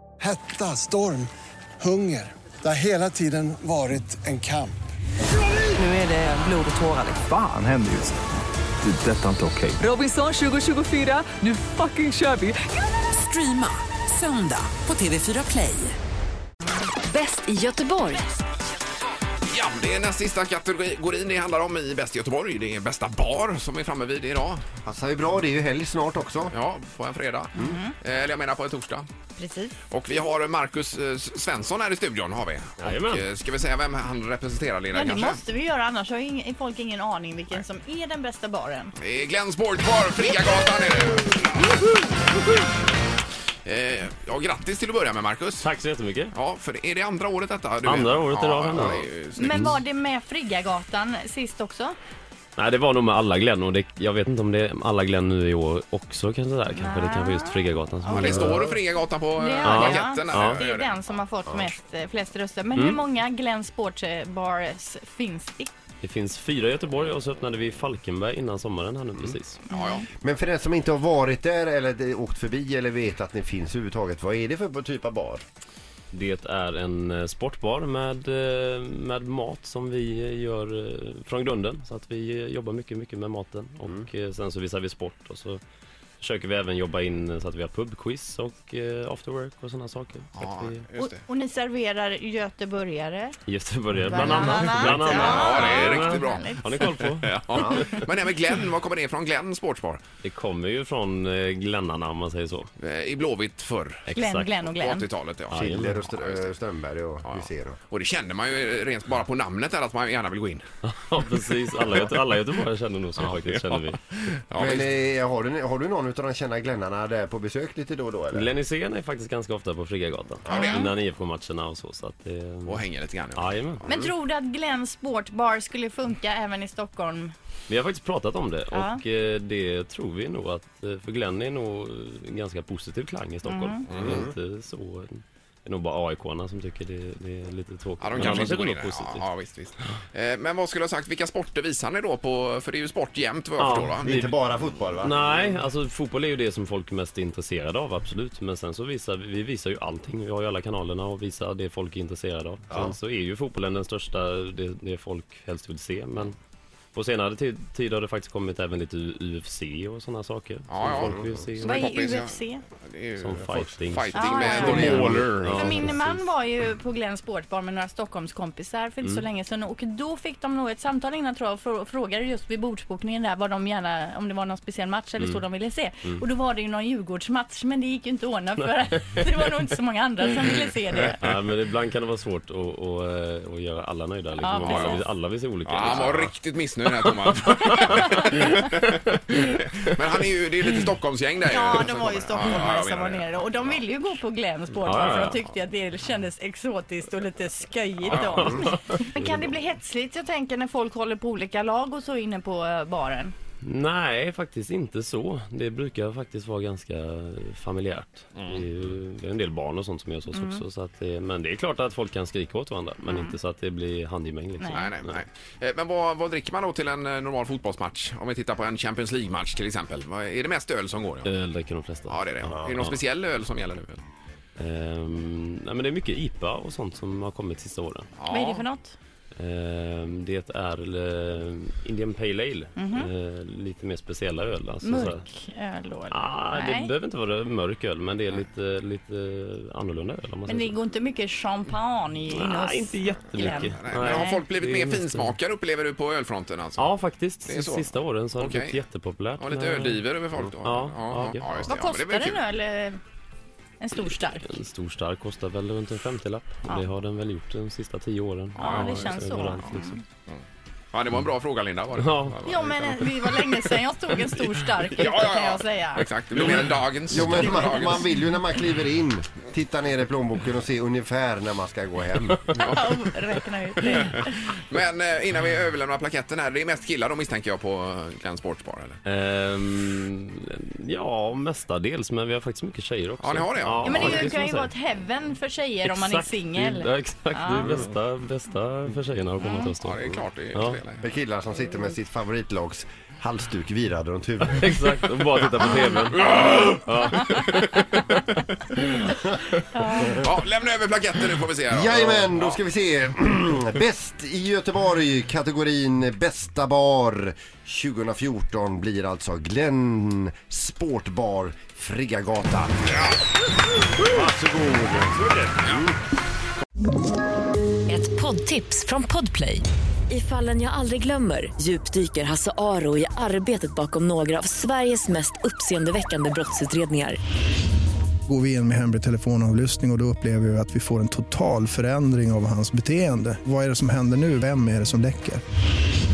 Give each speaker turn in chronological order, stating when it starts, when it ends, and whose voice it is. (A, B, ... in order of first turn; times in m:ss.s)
0:00.2-0:01.3 A
0:01.8-0:04.8 A
0:05.8-0:07.2 B
0:07.2-0:08.1 C
0:08.8-0:09.8 C
0:09.8-0:15.9 B
0:17.0-0:18.2 D
0:19.5-0:24.6 E
0:24.8-0:26.5 F
0:26.5-0:29.1 E
0:27.6-0:27.9 G
0:29.4-0:29.8 G
0:29.9-0:35.4 E
0:32.8-0:33.2 H
0:34.9-0:38.9 G
0:39.0-0:41.6 E
0:43.6-0:45.7 E
0:45.6-0:46.3 H
0:46.3-0:49.8 E
0:47.8-0:49.8 H
0:49.4-0:51.9 G
0:52.6-0:58.6 H
0:56.8-0:58.4 G
0:58.1-1:01.2 E
0:59.4-1:05.7 G
0:59.6-1:00.6 H
1:02.7-1:03.0 H
1:06.0-1:09.6 H
1:09.7-1:10.0 E
1:09.7-1:10.0 G
1:10.2-1:15.4 F
1:16.1-1:25.6 H
1:26.2-1:30.8 H
1:30.4-1:31.2 E
1:31.0-1:33.4 G
1:33.4-1:37.3 H
1:34.0-1:36.9 G
1:34.5-1:40.0 E
1:37.5-1:37.9 F
1:40.2-1:42.7 H
1:42.8-1:44.1 E
1:44.1-1:44.5 H
1:44.1-1:45.1 G
1:44.6-1:46.5 E
1:45.5-1:46.0 H
1:45.5-1:47.8 F
1:47.2-1:50.6 E
1:50.8-1:54.0 H
1:53.2-1:55.0 E
1:54.6-1:58.5 F
1:58.3-2:02.8 H
2:00.5-2:00.8 E
2:00.5-2:00.9 G
2:02.6-2:04.0 E
2:03.3-2:03.9 H
2:03.8-2:07.3 G
2:07.7-2:19.2 H
2:08.7-2:09.0 G
2:13.4-2:13.8 G
2:13.9-2:14.3 E
2:14.0-2:14.3 F
2:18.0-2:24.2 E
2:23.6-2:24.4 H
2:24.0-2:25.2 F
2:25.0-2:36.4 H
2:36.9-2:41.8 H
2:40.7-2:45.9 E
2:40.9-2:41.4 F
2:41.6-2:42.6 G
2:43.2-2:46.2 H
2:44.1-2:44.9 G
2:45.5-3:01.2 G
2:55.2-2:55.4 H
3:01.2-3:06.3 H
3:04.4-3:05.0 G
3:04.6-3:05.0 E
3:05.6-3:13.8 E
3:07.6-3:08.1 H
3:11.4-3:23.3 G
3:14.8-3:15.4 H
3:18.0-3:18.7 E
3:18.4-3:19.6 H
3:23.6-3:35.2 H
3:28.4-3:28.6 E
3:30.3-3:30.6 G
3:33.0-3:33.4 G
3:34.6-3:34.9 G
3:34.7-3:41.3 E
3:41.2-3:43.0 H
3:42.1-3:44.0 E
3:44.6-3:48.1 H
3:48.2-3:48.6 E
3:48.3-3:48.9 G
3:49.4-3:55.2 H
3:52.8-3:53.1 G
3:54.8-3:56.9 G
3:56.1-4:00.7 H
4:00.4-4:04.4 G
4:02.3-4:05.4 H
4:03.3-4:06.9 E
4:06.8-4:10.0 H
4:07.4-4:08.8 E
4:09.4-4:12.4 E
4:10.6-4:11.5 H
4:11.7-4:13.0 G
4:13.8-4:14.5 G
4:14.4-4:20.0 H
4:18.6-4:19.6 E
4:18.6-4:20.0 G
4:20.3-4:22.9 E
4:22.0-4:23.1 H
4:22.4-4:26.5 G
4:25.0-4:28.0 E
4:27.1-4:32.4 F
4:32.5-4:34.5 G
4:32.5-4:33.0 E
4:33.9-4:34.2 E
4:34.7-4:39.0 E
4:39.0-4:44.7 H
4:43.2-4:44.3 E
4:43.8-4:47.8 G
4:45.8-4:50.0 H
4:49.4-4:49.7 G
4:49.8-4:51.0 E
4:51.0-4:54.7 F
4:54.5-4:58.2 H
4:56.2-4:56.8 E
4:59.7-5:00.1 G
5:00.0-5:02.6 E
5:01.7-5:13.1 F
5:14.1-5:15.9 F
5:17.9-5:27.2 D
5:28.3-5:35.4 I